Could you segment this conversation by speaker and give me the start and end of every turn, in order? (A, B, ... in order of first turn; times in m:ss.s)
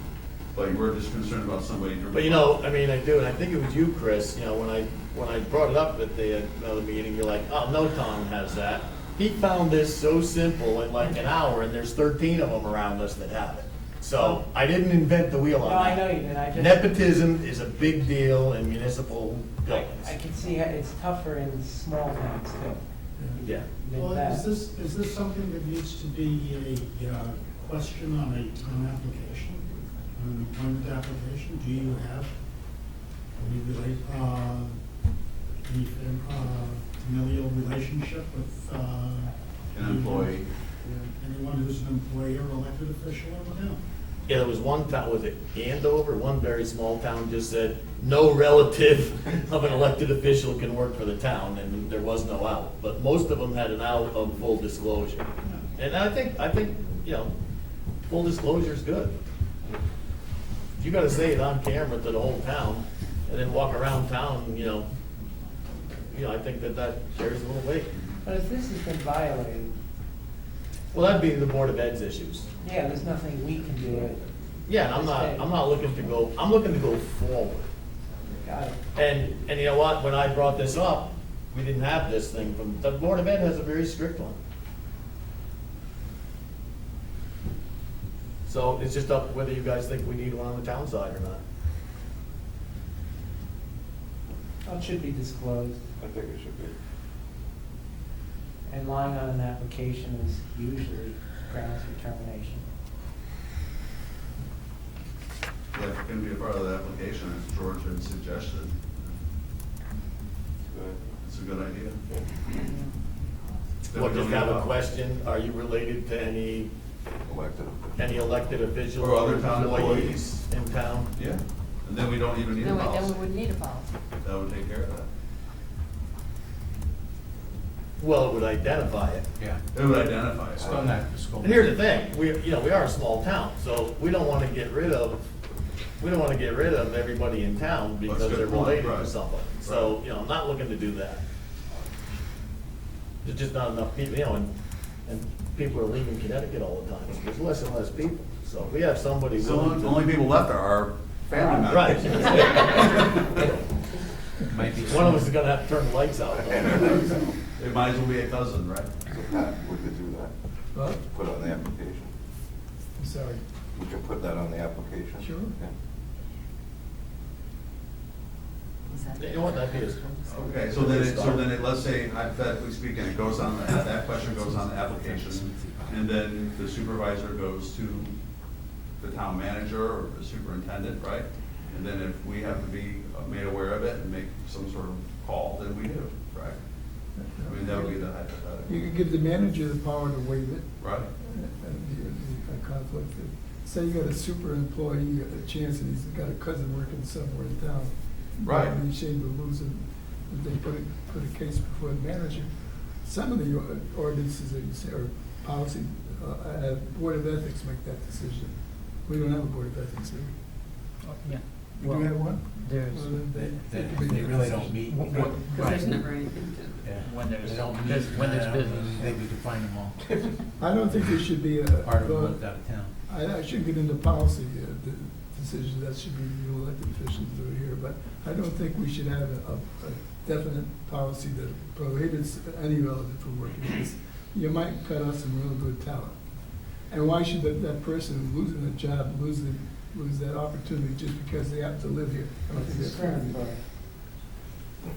0:00.5-0:02.6 A
0:02.1-0:20.2 B
0:14.2-0:14.4 C
0:15.6-0:17.0 D
0:19.7-0:24.5 D
0:23.4-0:23.7 B
0:23.9-0:32.4 C
0:33.3-0:34.8 C
0:35.6-0:43.8 C
0:39.7-0:40.5 A
0:44.3-0:57.3 B
0:55.4-0:55.7 C
0:58.1-0:59.1 B
1:00.8-1:04.9 B
1:06.1-1:08.0 B
1:08.2-1:09.8 D
1:10.9-1:12.5 B
1:12.6-1:15.5 D
1:12.6-1:12.9 E
1:13.8-1:14.2 E
1:14.7-1:17.7 B
1:18.3-1:18.8 D
1:18.9-1:24.4 B
1:28.5-1:31.4 B
1:34.6-1:35.8 D
1:36.0-1:36.7 F
1:38.7-1:42.6 D
1:45.7-1:49.2 A
1:50.7-1:51.0 F
1:51.2-1:52.0 A
1:53.9-1:54.7 A
1:54.0-1:56.7 B
1:57.2-1:58.5 F
1:58.0-2:01.1 B
1:59.0-2:00.2 A
2:01.1-2:03.4 A
2:02.6-2:03.9 E
2:04.2-2:05.1 A
2:08.0-2:09.3 B
2:09.4-2:09.6 G
2:09.7-2:10.8 A
2:10.6-2:11.8 G
2:11.4-2:15.2 B
2:16.0-2:21.2 B
2:18.1-2:20.0 A
2:23.2-2:24.5 B
2:25.1-2:30.0 B
2:29.4-2:33.5 A
2:31.7-2:33.0 B
2:34.5-2:35.5 G
2:34.9-2:37.1 B
2:36.5-2:37.4 F
2:37.6-2:38.9 A
2:39.1-2:40.3 F
2:40.7-2:41.0 H
2:41.0-2:42.1 F
2:43.0-2:43.4 H
2:43.7-2:45.7 F
2:45.2-2:45.6 H
2:49.0-2:50.0 E
2:49.2-2:51.5 B
2:50.2-2:58.2 A
2:54.5-2:55.8 G
2:59.0-3:06.6 A
3:07.2-3:08.1 H
3:07.5-3:08.8 A
3:08.7-3:30.4 H
3:10.8-3:11.1 A
3:18.4-3:18.8 A
3:31.1-3:33.2 I
3:31.6-3:36.2 H
3:33.2-3:36.0 G
3:36.8-3:40.4 G
3:37.0-3:39.1 I
3:38.0-3:38.6 E
3:40.6-4:03.5 H
3:41.8-3:42.9 G
4:02.5-4:03.6 D